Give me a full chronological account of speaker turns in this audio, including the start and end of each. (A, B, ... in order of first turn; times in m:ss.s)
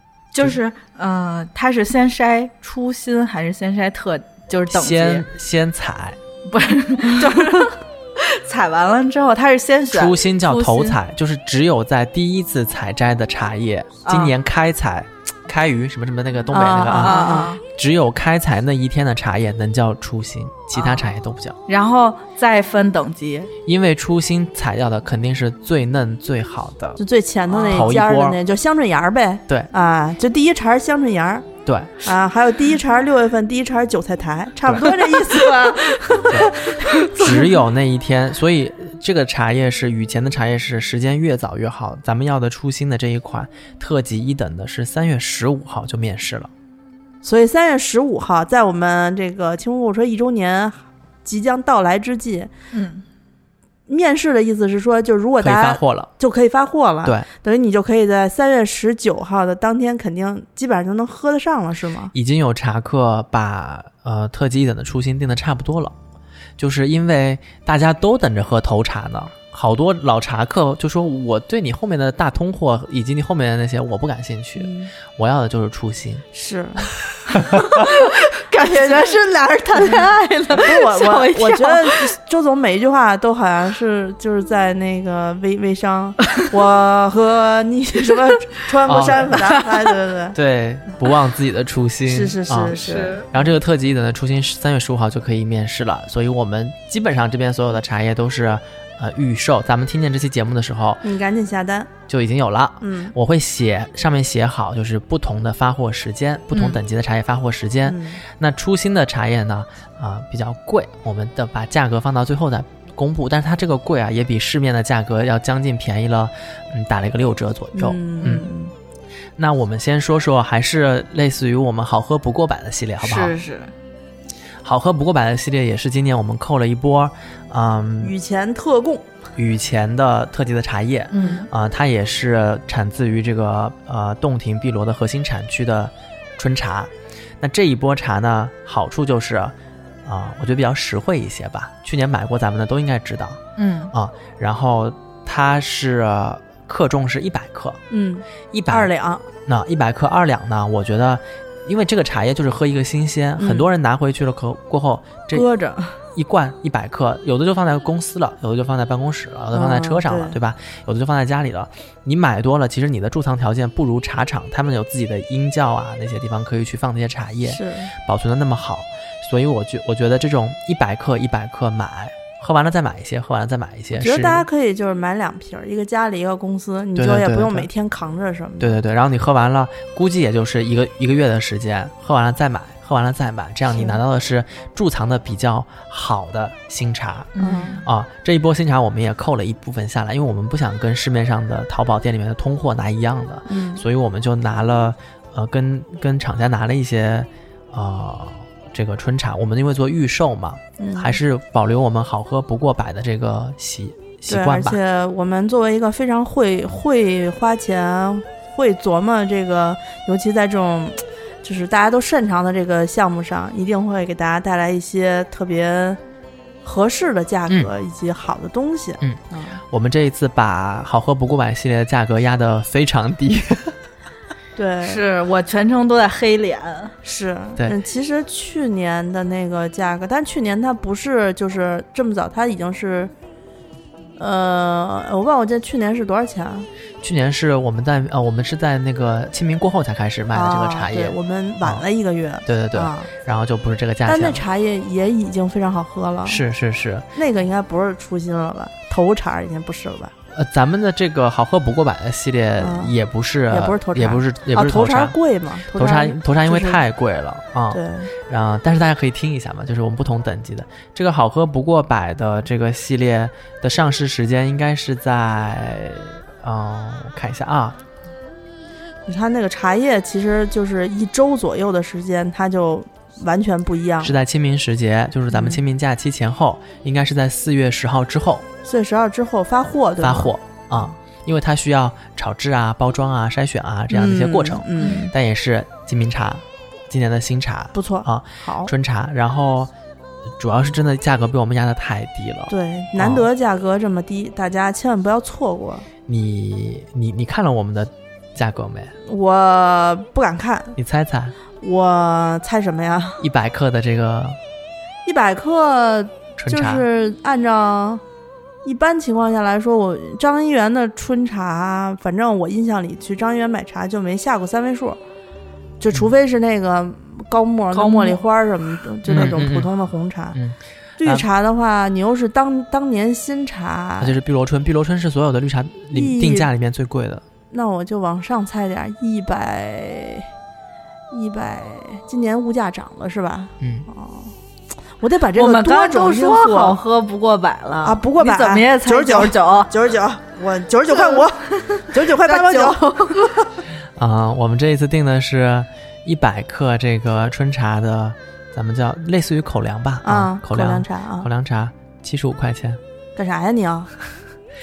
0:00.3-0:05.2 A
0:04.7-0:06.2 B
0:06.5-0:11.0 A
0:09.9-0:21.6 B
0:14.1-0:14.4 A
0:16.5-0:17.6 C
0:16.9-0:17.6 A
0:20.8-0:21.1 A
0:21.7-0:23.5 A
0:23.7-0:27.0 B
0:27.0-0:31.5 C
0:27.5-0:27.9 A
0:27.7-0:28.4 B
0:31.7-0:32.0 B
0:32.0-0:37.4 C
0:34.8-0:37.6 A
0:36.3-0:46.5 B
0:47.2-0:52.5 C
0:52.7-0:53.0 A
0:53.9-1:02.1 C
0:55.4-0:56.1 B
1:02.1-1:06.0 B
1:06.6-1:16.2 B
1:14.6-1:14.9 C
1:16.3-1:16.9 C
1:17.3-1:17.7 B
1:17.5-1:22.1 A
1:18.7-1:19.0 C
1:20.6-1:30.4 C
1:28.9-1:29.4 B
1:30.3-1:41.0 B
1:32.0-1:33.2 C
1:32.7-1:33.3 A
1:41.0-1:41.9 C
1:42.1-1:58.5 B
1:42.8-1:43.1 C
1:46.5-1:46.8 A
1:47.8-1:48.2 C
1:57.8-1:58.7 C
1:59.4-2:03.4 B
2:03.0-2:03.7 A
2:04.6-2:08.1 B
2:08.0-2:09.1 C
2:09.4-2:23.4 B
2:11.1-2:11.5 A
2:23.6-2:23.9 A
2:23.9-2:27.8 B
2:27.9-2:29.3 C
2:28.5-2:28.9 B
2:29.5-2:35.5 B
2:33.4-2:33.7 C
2:35.3-2:36.0 C
2:36.2-2:54.4 B
2:39.5-2:40.4 C
2:47.4-2:47.9 C
2:54.0-2:58.8 C
2:57.0-2:57.7 B
2:58.6-3:24.8 B
3:03.7-3:04.0 C
3:07.4-3:07.8 A
3:07.4-3:07.8 C
3:13.5-3:13.8 C
3:20.8-3:21.2 C
3:24.3-3:36.0 C
3:36.6-3:39.6 C
3:39.0-3:43.8 B
3:44.6-3:45.0 C
3:44.8-3:47.0 A
3:47.0-3:53.1 C
3:54.2-3:56.7 C
3:57.0-4:01.8 B
4:00.3-4:03.1 C
4:02.4-4:04.4 B
4:04.1-4:06.4 C
4:06.3-4:07.1 B
4:07.2-4:10.1 C
4:10.3-4:15.2 B
4:12.6-4:13.0 C
4:13.5-4:16.8 C
4:15.7-4:27.8 B
4:17.7-4:18.1 C
4:29.1-4:34.2 C
4:34.0-4:38.5 B
4:35.3-4:35.6 C
4:38.6-4:40.3 C
4:40.0-4:49.7 B
4:43.9-4:45.1 C
4:44.8-4:45.1 A
4:47.7-4:48.7 C
4:50.4-4:53.3 B
4:52.5-4:55.9 C
4:56.1-4:58.9 B
4:59.0-5:00.8 C
5:00.8-5:01.4 B
5:01.6-5:03.2 C
5:03.2-5:04.4 B
5:05.0-5:08.0 C
5:06.4-5:06.8 B
5:08.6-5:15.0 C
5:15.8-5:20.4 C
5:17.7-5:18.2 A
5:19.1-5:19.7 B
5:20.3-5:21.3 B
5:21.0-5:24.2 C
5:24.0-5:27.2 B
5:25.9-5:26.5 C
5:27.5-5:30.3 C
5:31.1-5:34.3 C
5:33.6-5:33.9 B
5:35.0-5:36.8 C
5:35.4-5:39.7 A
5:37.8-5:43.2 C
5:41.0-5:43.5 A
5:44.0-5:52.8 B
5:50.0-5:51.3 C
5:53.2-5:53.9 C